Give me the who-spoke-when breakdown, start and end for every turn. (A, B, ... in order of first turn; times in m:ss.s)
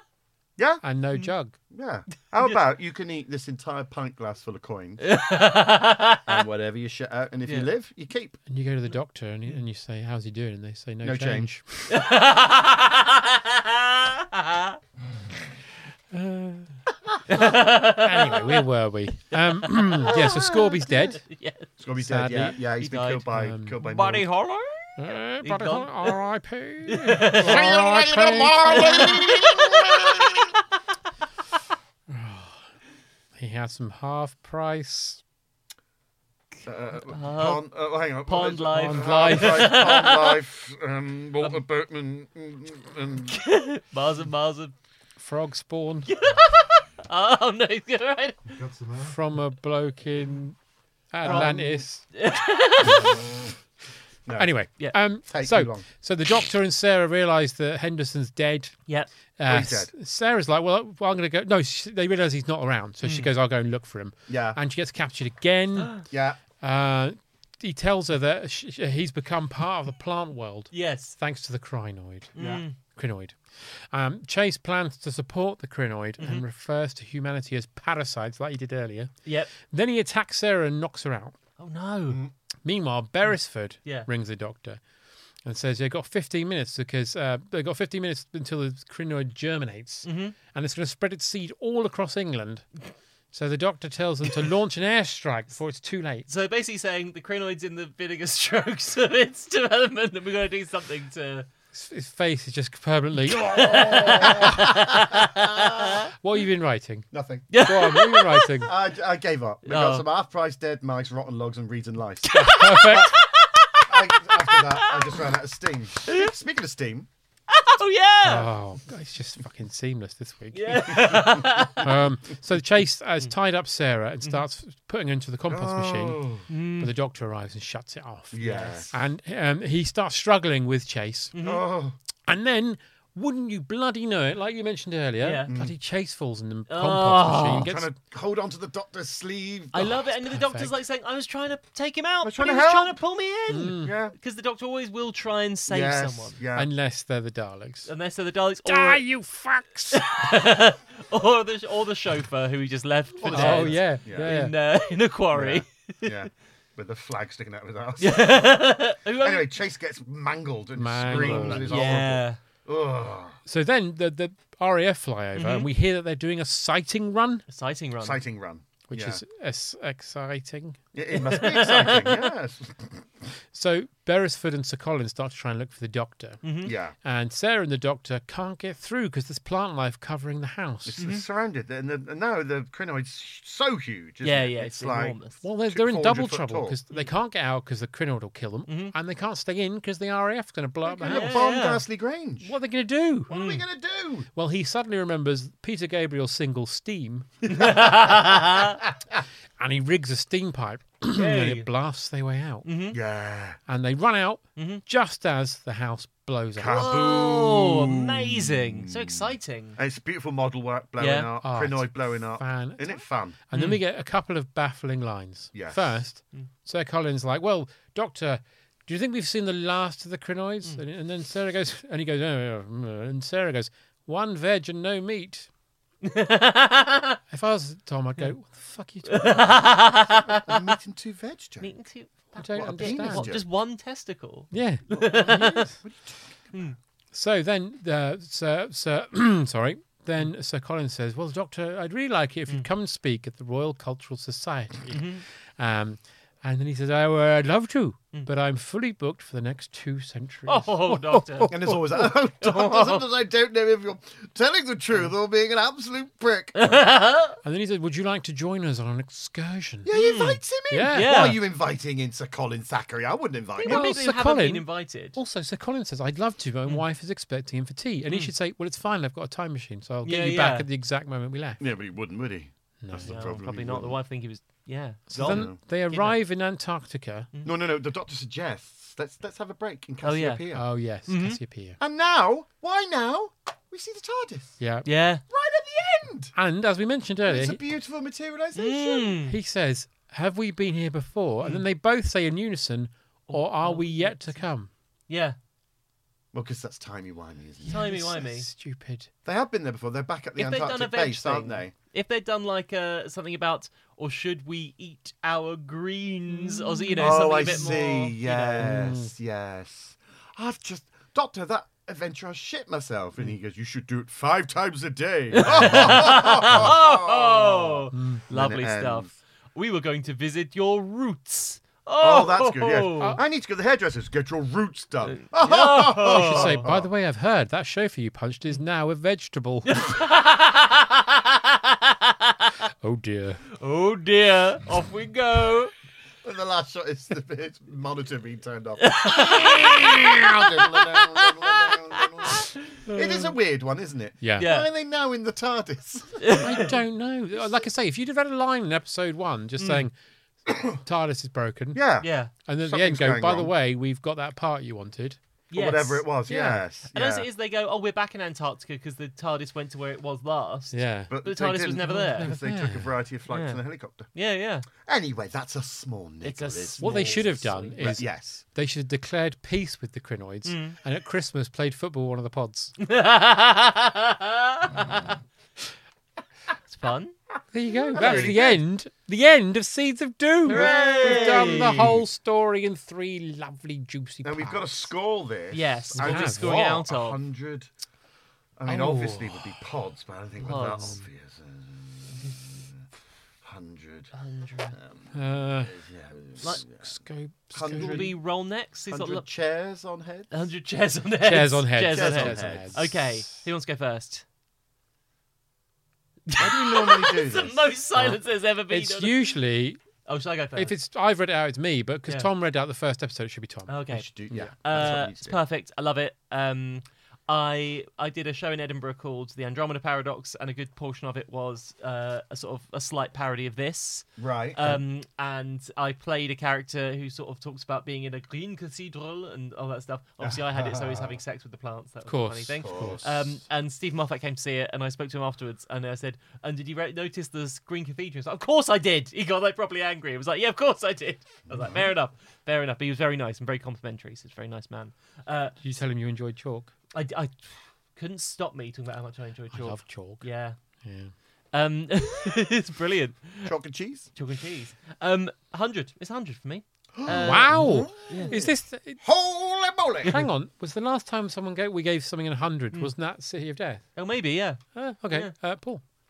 0:00.6-0:00.8 A
0:00.8-0:01.6 B
0:01.7-0:05.1 A
0:02.4-0:02.6 C
0:05.0-0:06.4 C
0:06.2-0:08.4 A
0:08.5-0:11.9 B
0:11.0-0:11.5 A
0:11.9-0:14.8 C
0:16.1-0:16.8 B
0:17.3-0:18.5 C
0:17.4-0:21.2 B
0:20.0-0:21.2 A
0:21.2-0:21.7 C
0:21.8-0:24.3 A
0:22.0-0:22.6 B
0:22.6-0:23.2 C
0:23.3-0:23.8 B
0:23.8-0:26.2 C
0:25.0-0:29.2 B
0:26.9-0:27.6 C
0:27.3-0:30.5 A
0:28.6-0:30.4 C
0:32.1-0:32.6 B
0:33.4-0:35.2 B
0:36.6-0:43.4 A
0:37.1-0:40.4 C
0:38.7-0:39.8 B
0:43.3-0:44.7 C
0:45.2-0:46.1 B
0:46.1-0:48.4 C
0:48.5-0:49.2 A
0:49.0-0:50.6 B
0:51.1-0:52.0 B
0:51.2-0:51.8 A
0:51.2-0:51.6 C
0:52.1-0:53.2 C
0:52.8-0:53.5 A
0:54.2-0:55.8 A
0:54.4-1:06.0 B
0:59.4-0:59.9 A
1:03.0-1:03.3 C
1:04.3-1:04.6 A
1:06.1-1:06.4 A
1:06.6-1:12.3 B
1:10.7-1:11.1 C
1:12.3-1:12.7 C
1:12.4-1:12.6 A
1:12.9-1:21.4 B
1:19.2-1:19.5 C
1:21.6-1:22.2 C
1:22.1-1:22.3 A
1:22.6-1:24.8 B
1:25.4-1:32.6 B
1:30.0-1:30.3 C
1:33.3-1:36.3 B
1:36.3-1:41.5 C
1:41.7-1:44.7 B
1:43.4-1:46.0 A
1:43.4-1:46.0 C
1:46.2-1:48.7 B
1:47.1-1:47.4 A
1:47.5-1:48.6 C
1:48.6-1:53.2 A
1:49.6-1:50.0 C
1:52.2-1:55.2 C
1:52.3-1:53.1 B
1:53.9-1:57.1 A
1:56.1-1:56.3 C
1:57.5-1:58.5 C
1:58.2-2:06.2 B
2:00.5-2:01.9 C
2:05.5-2:06.5 A
2:06.5-2:06.9 C
2:06.8-2:11.3 B
2:08.3-2:08.9 A
2:08.4-2:08.8 C
2:11.3-2:11.6 C
2:11.4-2:12.0 A
2:12.3-2:17.9 B
2:15.2-2:15.5 C
2:15.5-2:15.7 A
2:16.7-2:17.7 C
2:17.6-2:19.9 A
2:19.7-2:26.4 C
2:19.9-2:20.7 B
2:22.2-2:23.0 A
2:23.5-2:23.9 B
2:23.8-2:24.1 A
2:25.7-2:26.7 A
2:26.5-2:27.9 B
2:27.9-2:29.0 C
2:28.6-2:30.0 B
2:29.9-2:36.2 C
2:33.2-2:34.4 A
2:33.3-2:34.5 B
2:35.3-2:43.4 A
2:38.0-2:39.5 C
2:40.8-2:41.9 B
2:41.1-2:42.4 C
2:43.4-2:47.4 B
2:45.4-2:45.7 C
2:47.5-2:48.2 C
2:48.0-2:49.2 A
2:48.9-2:50.8 B
2:50.9-2:53.0 A
2:51.2-2:52.2 C
2:53.5-2:56.4 B
2:56.4-2:56.7 C
2:56.6-2:56.9 A
2:57.0-3:01.0 B
3:00.8-3:06.8 A
3:01.0-3:01.2 C
3:04.2-3:05.4 C
3:05.4-3:11.7 B
3:08.7-3:08.9 C
3:10.8-3:12.5 A
3:11.0-3:11.8 C
3:12.4-3:13.3 B
3:13.3-3:14.3 A
3:13.3-3:13.6 C
3:14.3-3:17.3 B
3:17.5-3:18.8 C
3:19.6-3:22.6 B
3:21.1-3:21.7 C
3:22.6-3:23.0 C
3:22.9-3:23.6 A
3:23.7-3:26.8 B
3:24.6-3:24.8 C
3:26.6-3:33.4 A
3:26.7-3:29.8 C
3:31.0-3:31.3 C
3:31.4-3:45.5 B
3:33.5-3:33.8 C
3:35.5-3:36.0 A
3:46.0-3:47.2 C
3:47.3-3:49.6 B
3:49.1-3:50.7 C
3:50.1-3:51.7 A
3:51.6-3:55.6 C
3:52.3-3:53.3 B
3:52.4-3:53.5 A
3:54.5-3:55.8 B
3:54.9-3:56.7 A
3:57.1-4:11.8 B
4:04.9-4:05.2 C
4:10.5-4:13.0 C
4:11.5-4:16.8 A
4:16.6-4:17.4 C
4:17.4-4:19.9 B
4:19.8-4:24.0 A
4:19.9-4:21.4 C
4:20.7-4:21.3 B
4:23.6-4:25.2 C
4:23.6-4:31.6 B
4:30.0-4:30.7 C
4:31.6-4:34.0 A
4:32.8-4:33.3 B
4:33.0-4:36.2 C
4:35.1-4:37.3 B
4:35.1-4:35.6 A
4:37.4-4:40.7 A
4:40.0-4:40.4 C
4:40.5-4:41.8 B
4:41.1-4:41.4 C
4:41.8-4:44.6 A
4:44.6-4:44.9 B
4:44.8-4:45.2 C
4:45.3-4:46.3 A
4:46.3-4:47.6 B
4:47.2-4:49.2 A
4:48.5-4:49.3 C
4:49.3-4:54.7 B
4:53.3-4:54.4 C
4:55.1-4:55.4 C
4:56.3-4:58.2 A
4:57.6-4:59.1 B
4:57.7-4:58.4 C
4:59.2-5:01.7 A
5:00.4-5:08.7 C
5:06.4-5:07.4 B
5:07.0-5:19.1 A
5:08.6-5:09.1 B
5:15.3-5:23.2 C
5:17.9-5:18.2 B
5:22.0-5:26.9 A
5:25.1-5:26.6 C
5:25.8-5:29.8 B
5:29.7-5:32.3 C
5:32.8-5:33.4 B
5:33.6-5:35.7 C
5:36.2-5:46.4 A
5:38.8-5:42.5 C
5:42.9-5:43.3 B
5:44.2-5:44.5 B
5:44.4-5:44.7 C
5:46.2-5:46.7 C
5:46.3-5:49.9 B
5:47.4-5:47.6 A
5:49.6-5:49.9 C
5:50.6-5:51.8 B
5:51.7-5:52.1 A
5:52.0-5:52.3 C
5:52.4-5:55.2 B
5:52.6-5:53.5 A
5:55.5-6:00.7 C
5:55.5-5:57.3 A
6:00.7-6:01.1 B
6:01.1-6:04.1 A
6:01.2-6:02.3 C
6:02.2-6:02.9 B
6:03.3-6:04.7 C
6:04.8-6:08.4 A
6:06.2-6:07.8 C
6:06.8-6:12.7 B
6:10.4-6:10.8 C
6:12.8-6:15.1 C
6:16.7-6:17.1 C
6:17.5-6:24.9 B
6:17.9-6:18.6 A
6:17.9-6:18.4 C
6:20.4-6:22.0 C
6:20.5-6:22.0 A
6:24.2-6:27.7 A
6:25.5-6:27.2 C
6:25.9-6:26.7 B
6:28.6-6:32.8 A
6:28.7-6:29.6 B
6:30.4-6:31.0 C
6:33.4-6:34.1 A
6:34.1-6:34.8 C
6:34.7-6:36.9 A
6:35.1-6:35.7 B
6:36.4-6:38.1 B
6:37.5-6:38.2 A
6:37.7-6:39.2 C
6:38.9-6:40.3 A
6:40.3-6:44.2 C
6:41.2-6:43.2 B
6:41.8-6:42.9 A
6:46.3-6:49.3 C
6:46.4-6:48.2 A
6:48.7-6:49.8 B
6:50.0-6:50.7 C
6:50.6-6:53.7 B
6:53.7-7:25.6 C
6:53.9-6:55.4 A
7:04.2-7:04.8 A
7:10.2-7:11.2 A
7:12.0-7:13.0 B
7:12.6-7:13.3 A
7:21.5-7:21.9 A
7:25.6-7:26.7 B
7:26.9-7:30.6 C
7:29.5-7:30.2 B
7:30.8-7:31.1 B
7:31.5-7:33.5 C
7:33.4-7:34.1 A
7:34.1-7:38.4 C
7:37.0-7:38.5 A
7:37.1-7:39.0 B
7:39.0-7:40.2 A
7:40.0-7:43.9 B
7:44.0-7:45.3 C
7:44.7-7:45.8 B